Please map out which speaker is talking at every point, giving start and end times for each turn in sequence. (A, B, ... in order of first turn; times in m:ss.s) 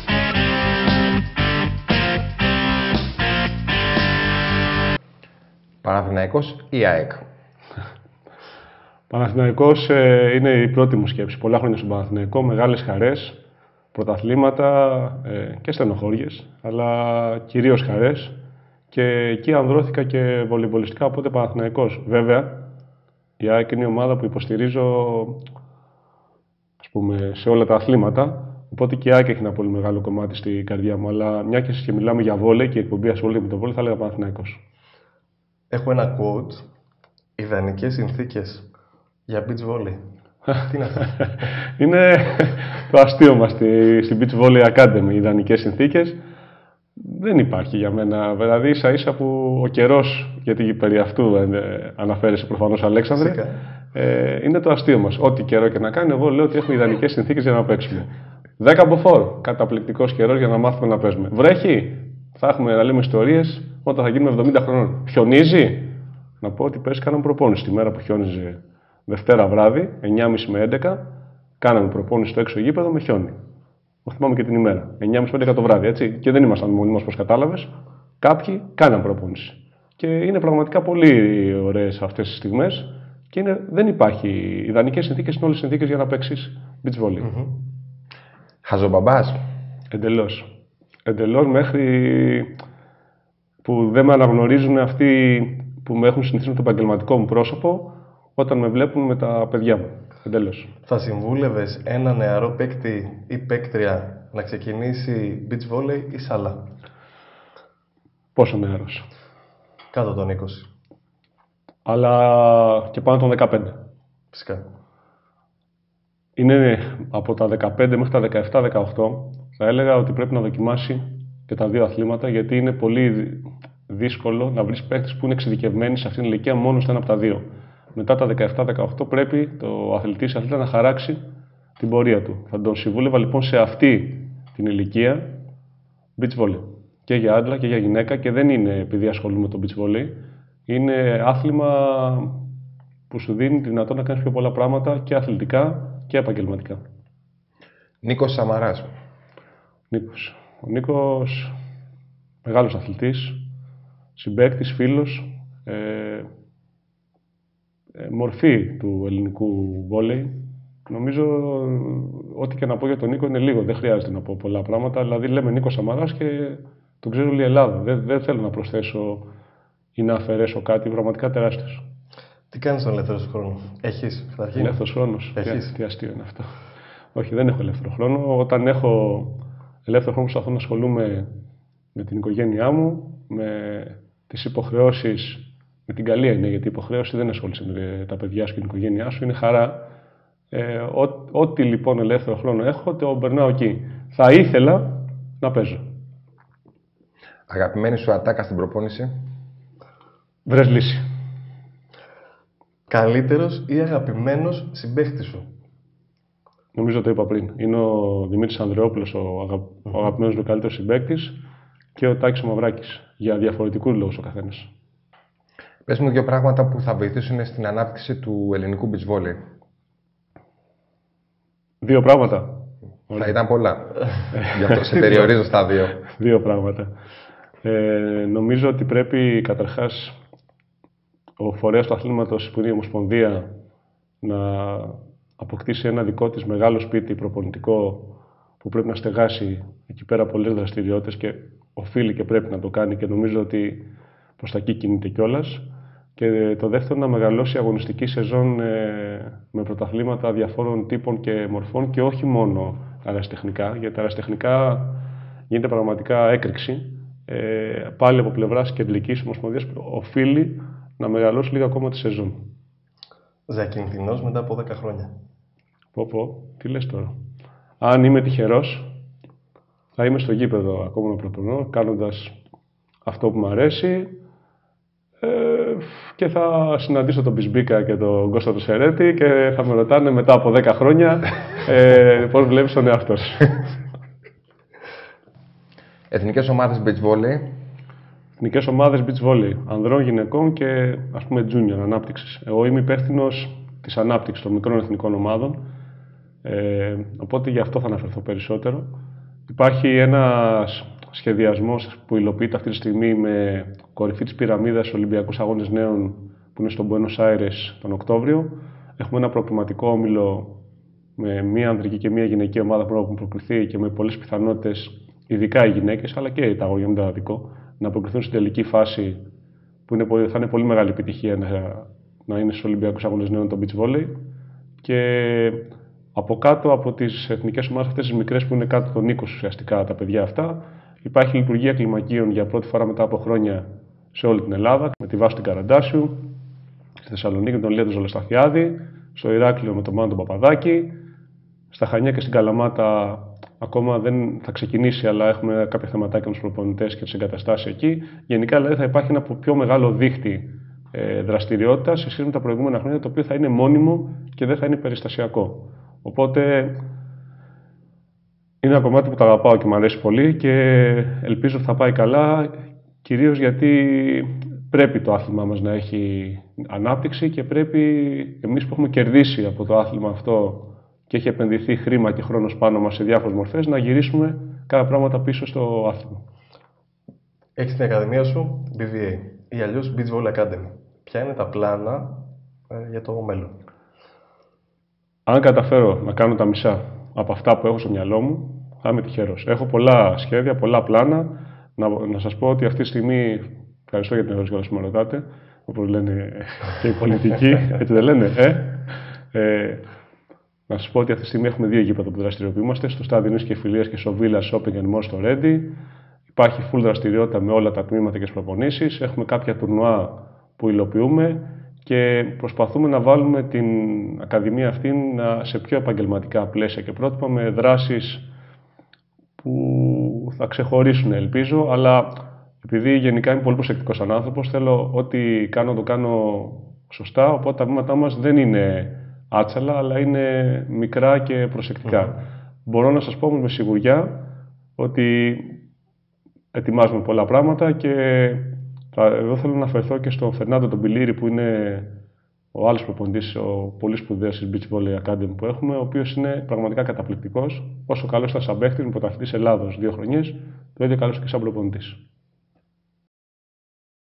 0:05.8-0:07.2 A
0:09.1-0:13.4 B
0:13.9-0:18.3 B
0:18.9-0:22.7 B
0:23.4-0:25.4 B
0:26.8-0:34.6 B
0:35.7-0:36.6 C
0:37.4-0:38.7 C
0:39.3-0:40.0 C
0:40.5-0:41.1 C
0:41.1-0:46.2 B
0:47.0-0:58.1 B
0:53.2-0:53.5 C
0:58.6-1:11.0 B
1:11.6-1:13.3 B
1:14.0-1:17.7 B
1:18.2-1:27.3 B
1:27.2-1:27.5 C
1:28.6-1:29.4 A
1:29.9-1:30.5 B
1:31.0-1:32.5 B
1:33.6-1:40.7 B
1:40.9-1:46.6 C
1:48.3-1:49.0 B
1:49.9-1:50.7 C
1:51.8-1:53.8 B
1:54.3-1:54.6 C
1:56.4-2:07.4 B
2:07.9-2:11.2 B
2:11.8-2:15.3 B
2:16.2-2:20.2 B
2:20.7-2:22.3 B
2:23.1-2:26.8 B
2:28.0-2:28.9 A
2:29.9-2:31.5 B
2:32.4-2:33.4 B
2:34.2-2:36.3 B
2:38.0-2:49.3 B
2:50.0-2:51.8 B
2:52.5-2:54.8 C
2:54.6-2:56.5 B
2:55.4-2:55.7 C
2:57.1-3:01.3 B
3:01.9-3:09.9 B
3:10.5-3:15.8 B
3:17.5-3:19.1 A
3:20.5-3:21.0 B
3:22.9-3:25.4 C
3:26.7-3:31.4 B
3:32.0-3:34.7 B
3:35.8-3:39.4 A
3:41.8-3:43.3 B
3:43.2-3:46.0 A
3:44.3-3:45.3 B
3:45.9-3:46.9 B
3:47.6-3:50.2 B
3:51.4-3:53.5 B
3:54.2-4:05.6 B
4:06.2-4:22.5 B
4:23.5-4:25.1 C
4:25.9-4:27.1 B
4:27.8-4:28.9 B
4:30.0-4:32.3 B
4:33.0-4:34.1 B
4:35.2-4:43.8 B
4:46.1-4:47.5 A
4:48.4-4:55.6 B
4:56.4-4:58.9 B
4:59.5-5:10.6 B
5:11.2-5:19.2 B
5:19.9-5:24.2 B
5:24.8-5:36.4 B
5:37.0-5:41.0 B
5:41.7-5:56.8 B
5:58.6-6:16.2 B
6:17.6-6:23.6 C
6:25.3-6:39.8 B
6:40.7-6:45.8 B
6:46.3-6:58.2 B
6:59.4-7:02.1 B
7:02.6-7:14.2 B
7:14.8-7:15.6 B
7:16.5-7:21.9 B
7:22.5-7:32.0 B